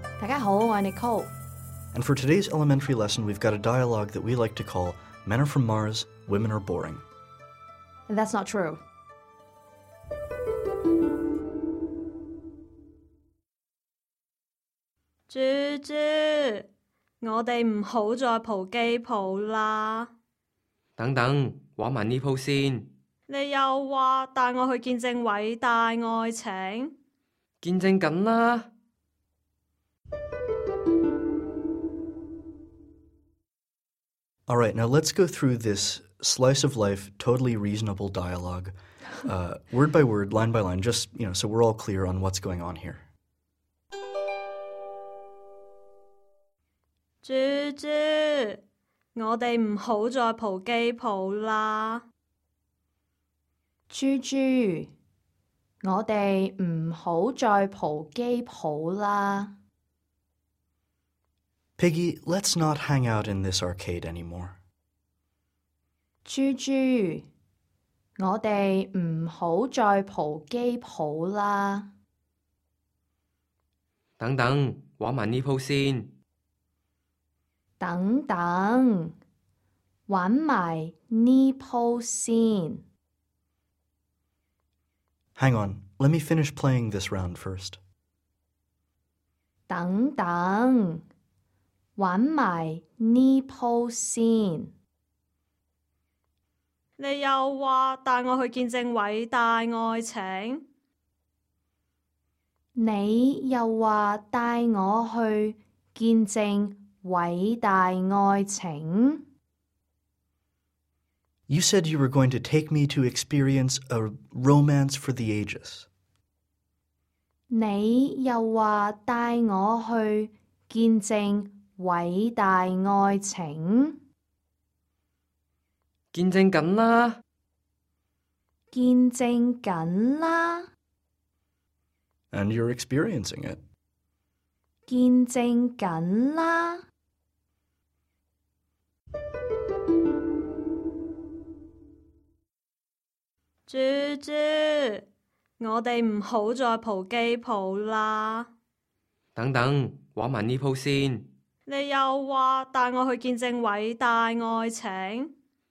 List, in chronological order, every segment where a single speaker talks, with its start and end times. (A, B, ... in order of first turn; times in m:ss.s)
0:00.2-0:01.3 A
0:01.9-0:07.0 B
0:08.1-0:08.8 A
0:15.3-0:16.7 C
0:17.2-0:20.1 C
0:21.0-0:22.8 D
0:23.3-0:26.9 C
0:27.6-0:28.7 D
0:34.5-0:43.1 B
0:47.2-0:48.6 C
0:49.2-0:52.0 C
0:53.9-0:54.9 A
0:55.8-0:59.5 A
1:01.8-1:04.6 B
1:06.2-1:07.3 A
1:08.2-1:11.9 A
1:14.2-1:16.1 D
1:17.8-1:19.2 A
1:20.1-1:22.8 A
1:25.4-1:27.8 B
1:29.7-1:31.0 A
1:32.0-1:34.7 A
1:37.0-1:40.6 C
1:42.8-1:49.2 A
1:51.5-1:55.9 B
1:57.5-2:04.0 A
2:06.1-2:07.2 D
2:08.7-2:10.7 A
2:12.3-2:13.6 B
2:14.9-2:16.8 A
2:23.7-2:25.0 C
2:25.6-2:28.5 C
2:29.4-2:31.2 D
2:31.7-2:35.3 C